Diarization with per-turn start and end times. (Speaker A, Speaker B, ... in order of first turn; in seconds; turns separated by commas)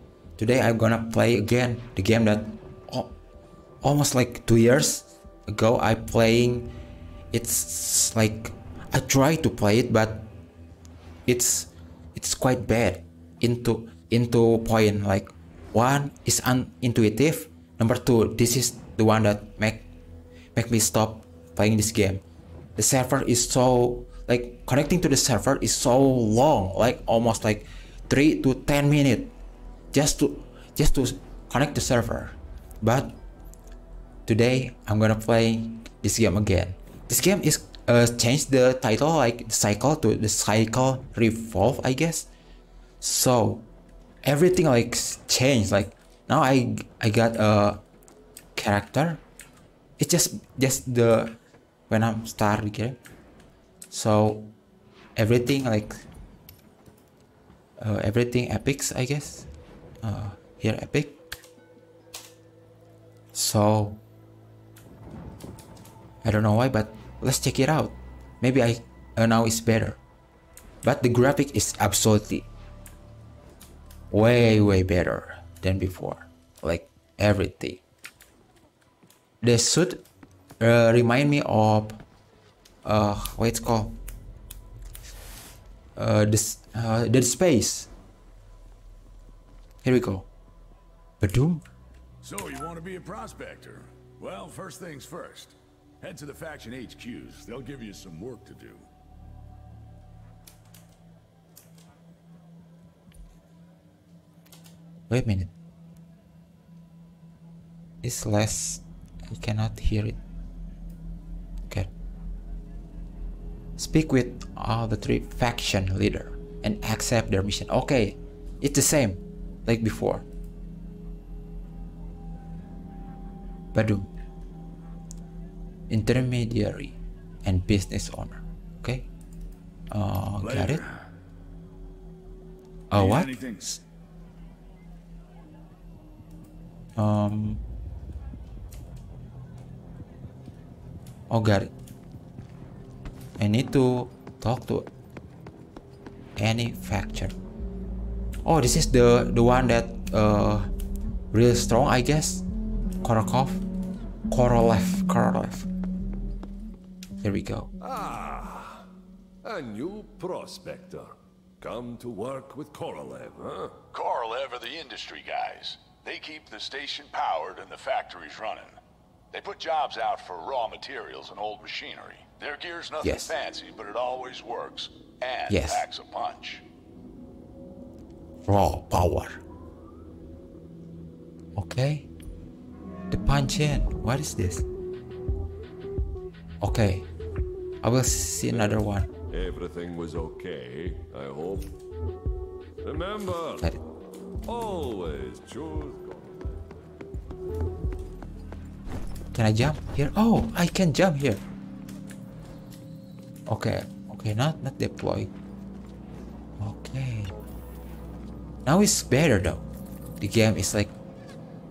Speaker A: 0.4-3.1, Speaker A: 3.8-6.7, Speaker A: 7.3-10.3, Speaker A: 11.2-19.9, Speaker A: 20.5-22.2, Speaker A: 22.8-29.3, Speaker A: 29.9-33.2, Speaker A: 34.2-42.3, Speaker A: 43.0-43.7, Speaker A: 44.2-47.8, Speaker A: 48.5-49.2, Speaker A: 50.0-51.4, Speaker A: 51.9-53.0, Speaker A: 53.9-54.6, Speaker A: 55.1-56.0, Speaker A: 57.8-59.5, Speaker A: 60.0-61.2, Speaker A: 63.3-64.0, Speaker A: 66.2-70.0, Speaker A: 70.8-72.5, Speaker A: 74.1-77.8, Speaker A: 79.4-80.0, Speaker A: 80.6-82.0, Speaker A: 82.8-84.0, Speaker A: 86.0-87.9, Speaker A: 89.8-90.3, Speaker A: 91.2-91.6, Speaker B: 92.2-98.9, Speaker A: 105.1-105.5, Speaker A: 108.0-110.2, Speaker A: 113.8-120.2, Speaker A: 123.7-124.1, Speaker A: 125.9-129.1, Speaker A: 129.9-130.8, Speaker B: 130.4-130.9, Speaker A: 132.9-133.8, Speaker B: 132.9-133.8, Speaker A: 137.0-137.6, Speaker A: 141.3-141.7, Speaker A: 143.4-144.9, Speaker A: 146.4-147.3, Speaker A: 148.4-150.7, Speaker A: 151.3-152.4, Speaker A: 153.0-153.6, Speaker A: 154.3-155.7, Speaker A: 157.2-157.7, Speaker C: 157.8-158.8, Speaker C: 159.4-163.8, Speaker B: 163.9-168.8, Speaker B: 169.3-176.6, Speaker A: 173.0-173.3, Speaker A: 175.5-175.8, Speaker A: 178.4-179.4, Speaker A: 181.6-182.1, Speaker A: 183.1-184.6, Speaker A: 186.6-187.1, Speaker A: 187.8-189.1, Speaker C: 188.5-191.7, Speaker C: 192.8-193.7, Speaker C: 194.4-196.9, Speaker A: 199.3-201.4, Speaker A: 203.5-205.3, Speaker A: 206.6-207.3, Speaker A: 208.6-209.7, Speaker A: 210.2-210.9